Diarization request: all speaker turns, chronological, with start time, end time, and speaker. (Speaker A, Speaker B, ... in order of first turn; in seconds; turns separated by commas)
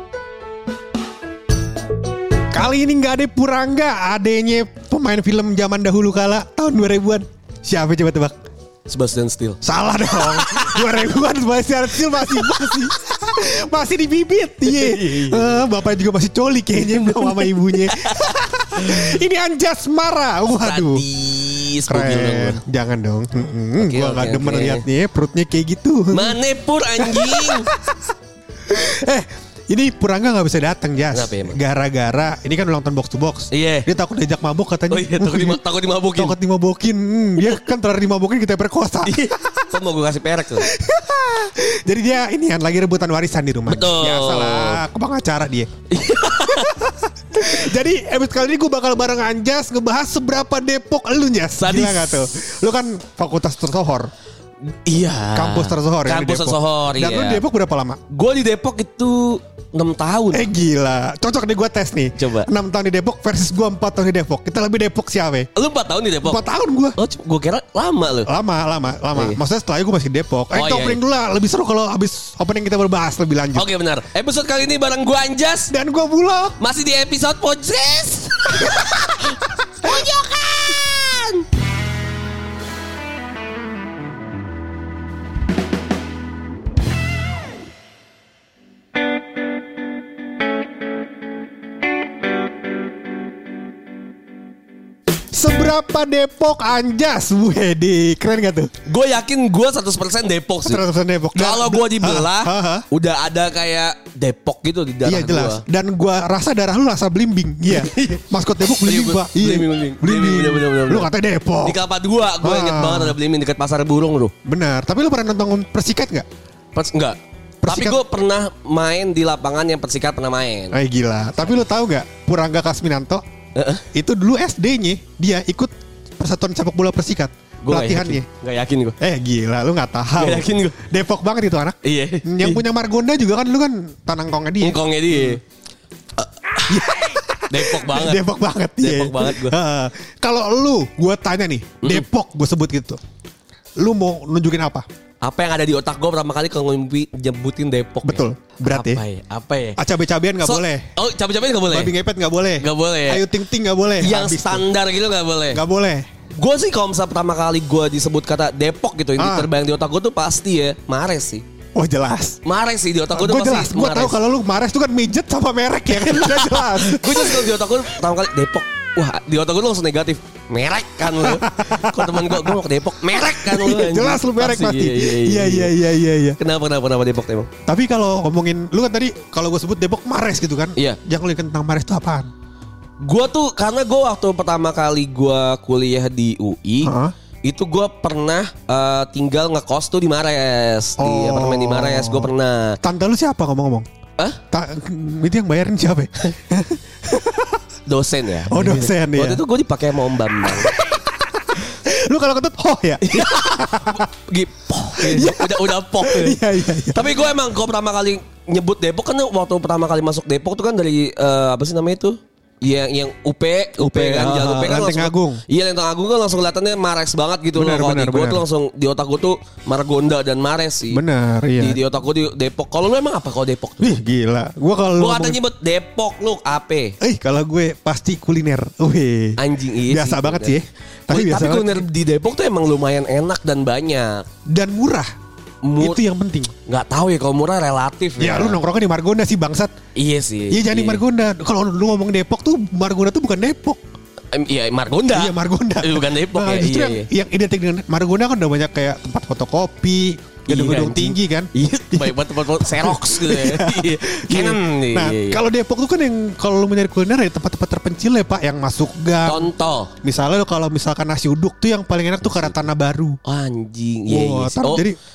Speaker A: 2.5-8.4, Speaker B: 8.9-9.6, Speaker A: 9.6-21.0, Speaker B: 10.2-11.1, Speaker B: 12.1-12.8, Speaker B: 14.7-15.6, Speaker B: 16.8-19.0, Speaker B: 20.6-22.6, Speaker A: 21.9-26.4, Speaker B: 23.8-24.8, Speaker B: 26.1-27.7, Speaker A: 27.0-28.1, Speaker A: 28.7-35.6, Speaker B: 31.1-31.6, Speaker B: 33.5-33.9, Speaker B: 34.9-36.4, Speaker A: 36.1-39.7, Speaker B: 39.0-40.7, Speaker A: 40.6-45.7, Speaker B: 43.7-44.8, Speaker B: 45.9-46.9, Speaker A: 46.5-54.1, Speaker B: 51.5-52.3, Speaker B: 54.9-57.4, Speaker A: 55.3-58.0, Speaker B: 58.1-60.5, Speaker A: 60.3-65.5, Speaker B: 62.1-62.5, Speaker B: 65.5-66.4, Speaker A: 66.2-67.0, Speaker B: 67.0-68.3, Speaker A: 68.3-73.7, Speaker B: 69.1-69.4, Speaker B: 70.5-71.0, Speaker B: 73.5-75.7, Speaker A: 75.7-76.6, Speaker B: 76.6-81.4, Speaker A: 95.3-98.7, Speaker B: 98.8-100.8, Speaker A: 100.7-102.8, Speaker B: 101.3-105.6, Speaker A: 105.0-111.8, Speaker B: 107.7-108.2, Speaker B: 108.8-111.1, Speaker B: 111.6-114.3, Speaker A: 112.4-113.2, Speaker A: 114.4-116.2, Speaker B: 116.7-120.8, Speaker A: 117.6-118.0, Speaker A: 120.7-123.2, Speaker B: 123.5-123.8, Speaker A: 123.9-128.2, Speaker B: 127.6-129.0, Speaker A: 129.0-135.4, Speaker B: 130.2-130.8, Speaker B: 131.8-132.6, Speaker B: 134.6-135.4, Speaker B: 136.2-136.8, Speaker A: 136.7-143.0, Speaker B: 137.5-138.2, Speaker B: 138.8-139.6, Speaker A: 143.8-144.9, Speaker B: 145.2-149.8, Speaker A: 148.0-149.0, Speaker A: 149.8-150.8, Speaker B: 150.4-151.9, Speaker A: 151.7-154.6, Speaker B: 152.6-153.2, Speaker B: 154.0-155.6, Speaker A: 155.5-156.1, Speaker B: 156.4-161.4, Speaker A: 159.2-159.5, Speaker A: 161.7-162.4, Speaker B: 162.4-164.2, Speaker A: 163.1-167.6, Speaker B: 165.9-175.7, Speaker A: 171.2-176.4, Speaker B: 176.4-177.5, Speaker A: 177.7-182.3, Speaker B: 183.0-192.8, Speaker A: 186.8-187.1, Speaker A: 191.0-192.3, Speaker A: 192.8-193.8, Speaker A: 194.5-197.6, Speaker B: 197.8-200.7, Speaker A: 198.5-199.4, Speaker A: 200.5-204.0, Speaker B: 203.0-206.4, Speaker A: 205.0-207.1, Speaker B: 206.9-221.0, Speaker A: 213.8-215.4, Speaker A: 217.6-218.4, Speaker A: 220.9-221.8, Speaker B: 221.6-224.0, Speaker A: 223.8-225.4, Speaker B: 225.0-227.0, Speaker A: 227.0-231.8, Speaker B: 229.4-230.6, Speaker B: 231.1-234.2, Speaker A: 234.5-235.1, Speaker B: 235.6-236.0, Speaker A: 235.8-236.5, Speaker B: 236.7-238.6, Speaker A: 238.2-239.7, Speaker B: 240.0-241.0, Speaker A: 240.5-243.8, Speaker B: 244.3-247.1, Speaker A: 245.1-259.5, Speaker B: 250.5-255.4, Speaker B: 259.2-259.9, Speaker A: 260.0-263.2, Speaker B: 262.2-262.5, Speaker B: 263.2-264.8, Speaker A: 264.1-264.9